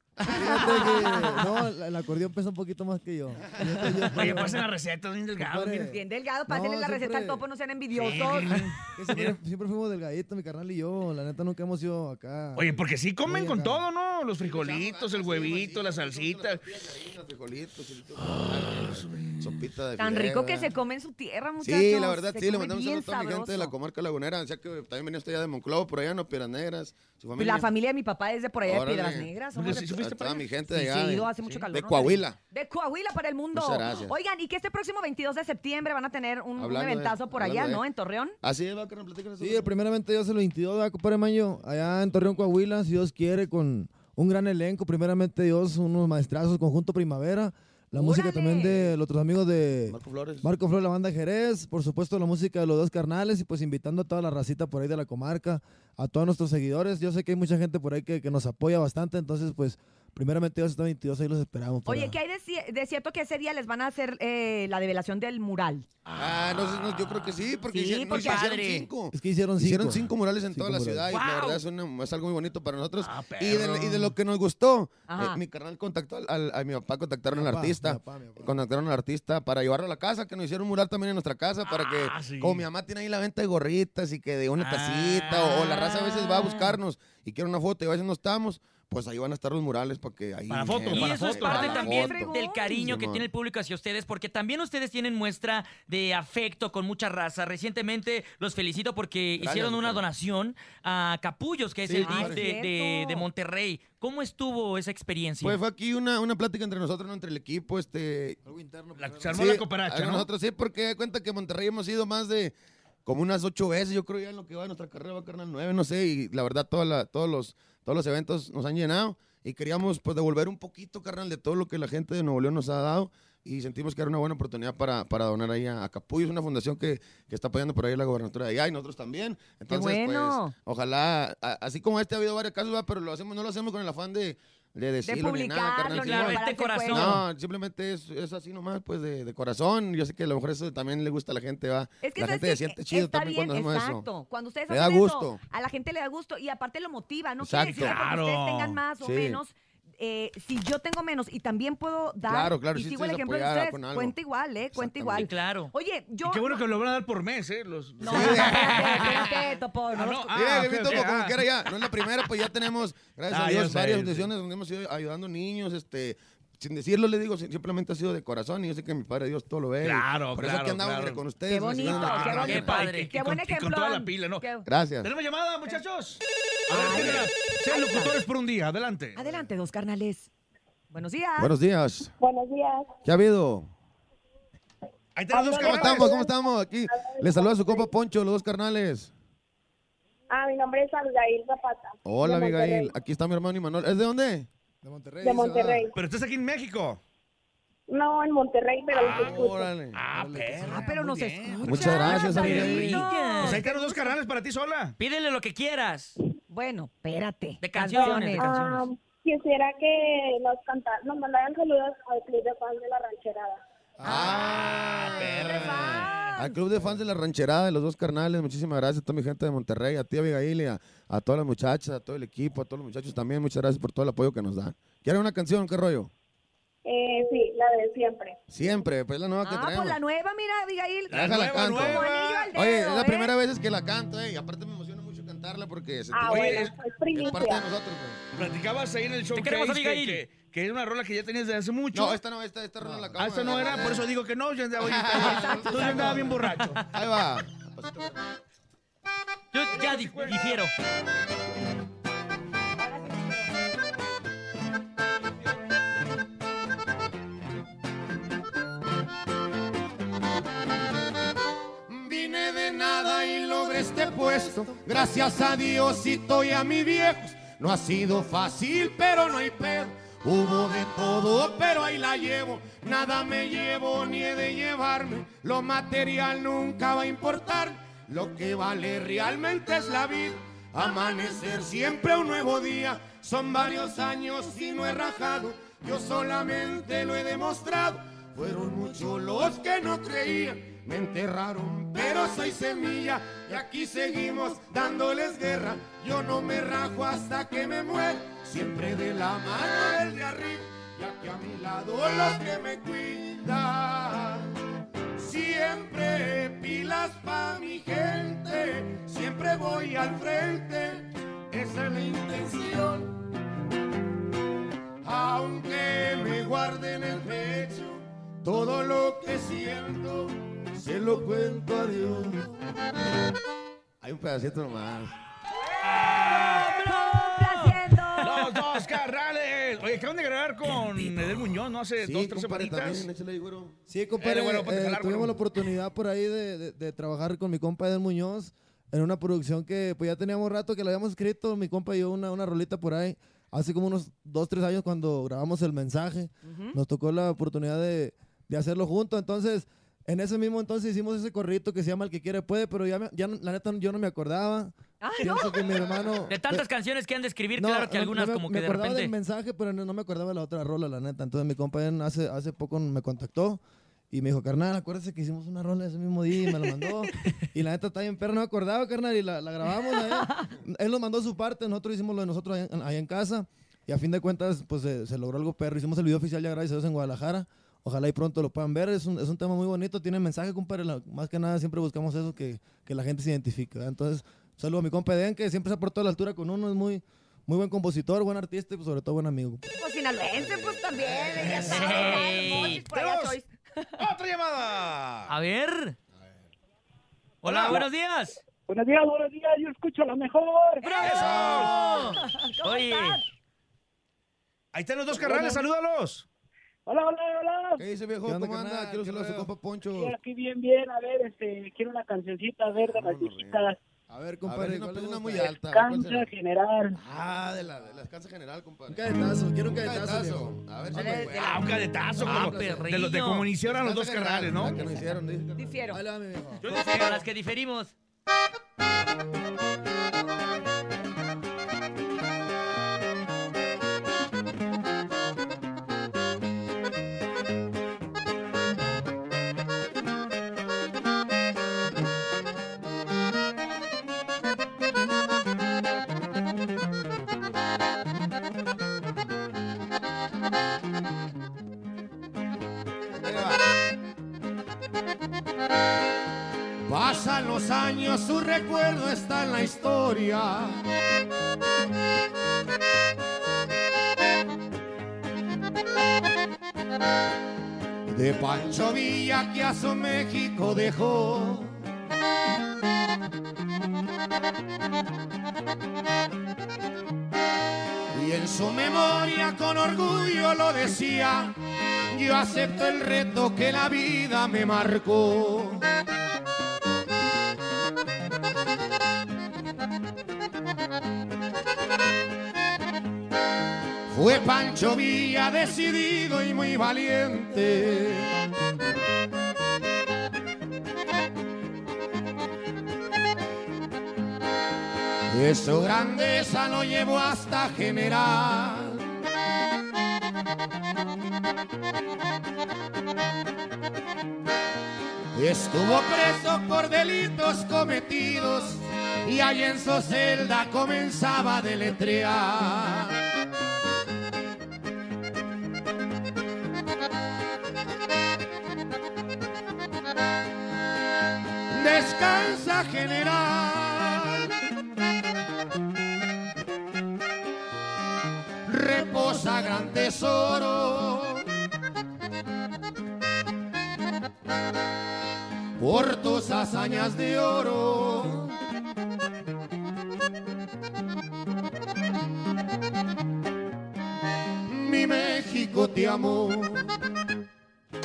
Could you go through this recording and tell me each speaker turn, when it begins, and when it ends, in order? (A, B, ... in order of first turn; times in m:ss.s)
0:00.3-0:04.6 A
0:00.3-0:01.4 B
0:04.1-0:05.9 C
0:05.4-0:07.4 A
0:05.8-0:08.5 B
0:07.9-0:09.4 C
0:08.5-0:13.8 A
0:12.5-0:16.6 C
0:14.4-0:20.7 D
0:18.3-0:19.5 C
0:20.0-0:23.7 B
0:21.6-0:27.7 D
0:27.4-0:30.0 B
0:28.6-0:32.4 D
0:29.5-0:30.5 C
0:30.7-0:38.4 B
0:33.5-0:34.1 D
0:36.6-0:37.8 D
0:38.4-0:39.7 D
0:39.4-1:02.2 A
0:47.9-0:48.9 B
0:49.9-0:50.5 D
1:01.8-1:05.8 B
1:06.1-1:06.6 C
1:06.2-1:33.3 D
1:07.7-1:08.4 B
1:08.0-1:08.9 E
1:09.1-1:11.1 A
1:11.1-1:11.5 C
1:13.0-1:14.1 C
1:15.1-1:15.4 B
1:17.3-1:18.6 A
1:21.6-1:22.6 C
1:24.6-1:25.5 C
1:30.5-1:31.7 C
1:30.9-1:45.6 E
1:31.4-1:32.7 B
1:39.4-1:40.0 D
1:41.8-1:42.4 D
1:42.0-1:43.3 B
1:45.4-1:48.4 D
1:48.4-1:49.6 A
1:49.0-1:50.3 C
1:49.3-1:52.5 D
1:53.0-2:24.1 D
2:09.7-2:10.5 B
2:15.0-2:17.2 B
2:15.9-2:17.2 E
2:22.0-2:36.6 B
2:24.7-2:25.4 D
2:27.4-2:27.9 D
2:27.8-2:28.8 C
2:29.0-2:29.4 D
2:32.2-2:34.1 D
2:34.7-2:35.3 D
2:35.1-2:35.7 E
2:36.2-2:39.3 C
2:38.0-2:40.3 B
2:38.0-2:39.3 D
2:39.9-2:42.1 C
2:40.3-2:52.7 D
2:43.3-2:44.3 C
2:49.8-2:51.2 C
2:51.5-2:54.7 B
2:51.8-2:54.4 C
2:52.3-2:53.1 E
2:54.6-2:55.1 D
2:55.0-2:59.2 C
2:56.7-2:58.1 B
2:59.2-3:00.3 B
3:00.9-3:01.5 B
3:01.4-3:02.1 D
3:02.2-3:02.9 F
3:03.0-3:03.7 D
3:05.2-3:06.2 C
3:05.3-3:06.4 F
3:05.6-3:09.1 D
3:06.9-3:07.9 F
3:10.3-3:12.9 F
3:12.0-3:14.5 D
3:14.8-3:15.8 A
3:15.2-3:15.9 F
3:15.9-3:17.0 C
3:17.9-3:19.7 F
3:19.0-3:20.0 D
3:19.9-3:25.0 C
3:20.1-3:20.9 A
3:20.6-3:24.1 B
3:21.6-3:23.0 D
3:22.1-3:23.6 E
3:25.0-3:26.1 E
3:26.5-3:28.5 B
3:27.6-3:28.8 E
3:28.0-3:33.6 F
3:34.0-3:46.1 D
3:34.0-3:34.4 B
3:34.1-3:36.1 C
3:35.4-3:36.6 B
3:46.8-3:48.4 F
3:48.5-3:50.0 D
3:49.4-3:53.3 B
3:51.1-3:52.5 C
3:51.1-3:52.0 D
3:52.5-3:58.2 D
3:56.1-3:57.7 F
3:56.3-3:56.7 C
3:58.4-4:02.2 C
3:59.3-4:00.2 E
4:01.9-4:04.1 D
4:02.8-4:03.1 A
4:03.2-4:06.8 C
4:04.8-4:08.2 D
4:05.2-4:06.2 B
4:09.5-4:10.7 E
4:09.7-4:10.6 C
4:21.9-5:04.5 D
5:05.2-5:13.2 D
5:15.0-5:22.5 D
5:24.0-5:25.1 D
5:25.9-5:26.7 C
5:26.0-5:28.6 B
5:26.4-5:27.8 E
5:28.2-5:33.1 C
5:32.0-5:33.8 D
5:33.9-5:56.6 A
5:34.2-5:35.4 C
5:46.4-5:46.8 B
5:55.0-5:55.8 B
5:56.3-5:59.1 E
5:57.6-6:29.8 A
6:29.8-6:33.9 B
6:31.4-6:33.4 C
6:31.6-6:32.8 E
6:34.0-6:35.3 C
6:35.3-6:36.0 E
6:37.4-6:37.8 C
6:37.4-6:38.4 E
6:38.6-6:40.9 G
6:40.8-6:43.2 B
6:41.0-6:41.7 C
6:41.1-6:43.2 E
6:44.7-6:46.2 C
6:45.1-6:45.6 G
6:46.8-6:47.8 G
6:47.8-6:50.1 D
6:48.2-6:49.5 A
6:49.9-6:53.8 G
6:52.8-6:53.7 D
6:54.1-6:55.5 A
6:54.4-6:56.3 D
6:55.4-6:57.0 G
6:57.0-6:59.1 D
6:58.9-7:01.3 A
6:59.7-7:01.6 D
7:00.9-7:01.7 B
7:01.3-7:04.8 C
7:02.2-7:02.9 A
7:02.2-7:03.5 E
7:03.6-7:05.8 D
7:04.7-7:05.1 A
7:05.6-7:06.0 B
7:05.9-7:06.8 A
7:06.6-7:07.2 C
7:06.6-7:07.9 E
7:33.2-7:33.6 D
7:36.9-7:40.8 D
7:48.1-7:51.8 D
7:58.1-8:01.6 D
8:02.1-8:05.8 D
8:14.1-8:18.3 D
8:25.3-8:29.0 D
8:35.3-8:43.2 D
8:51.7-8:54.5 D
8:58.6-9:01.4 D
9:05.8-9:08.5 D
9:14.6-9:17.0 D